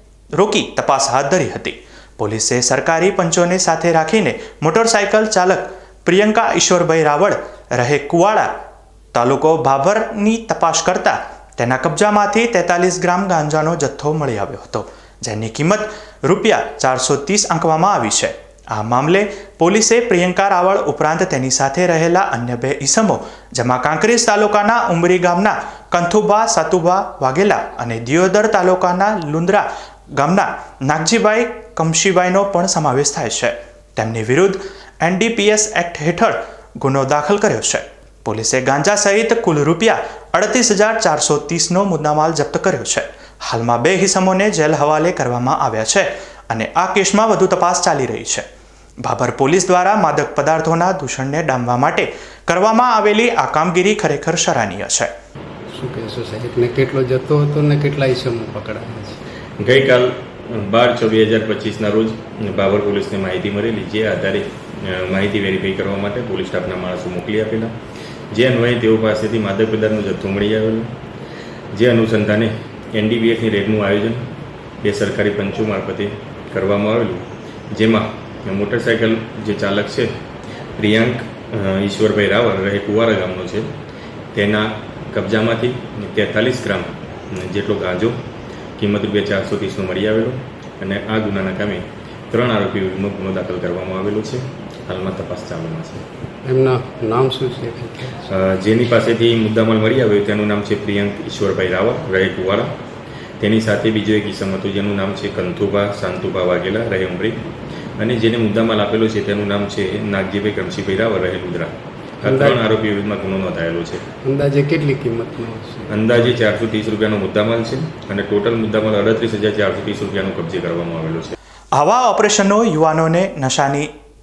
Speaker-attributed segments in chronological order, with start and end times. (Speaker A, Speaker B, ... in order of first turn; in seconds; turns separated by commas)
Speaker A: 0.4-8.5, Speaker A: 9.1-29.7, Speaker A: 30.2-48.5, Speaker A: 49.0-55.1, Speaker B: 55.7-59.2, Speaker C: 59.6-67.7, Speaker C: 68.3-70.9, Speaker C: 71.7-74.2, Speaker C: 74.8-80.1, Speaker C: 80.8-83.7, Speaker C: 84.3-88.2, Speaker C: 88.8-96.0, Speaker B: 96.5-98.3, Speaker C: 98.3-102.7, Speaker C: 103.4-107.5, Speaker C: 108.0-114.1, Speaker B: 112.2-112.7, Speaker B: 114.2-116.4, Speaker C: 115.9-121.3, Speaker A: 121.8-123.9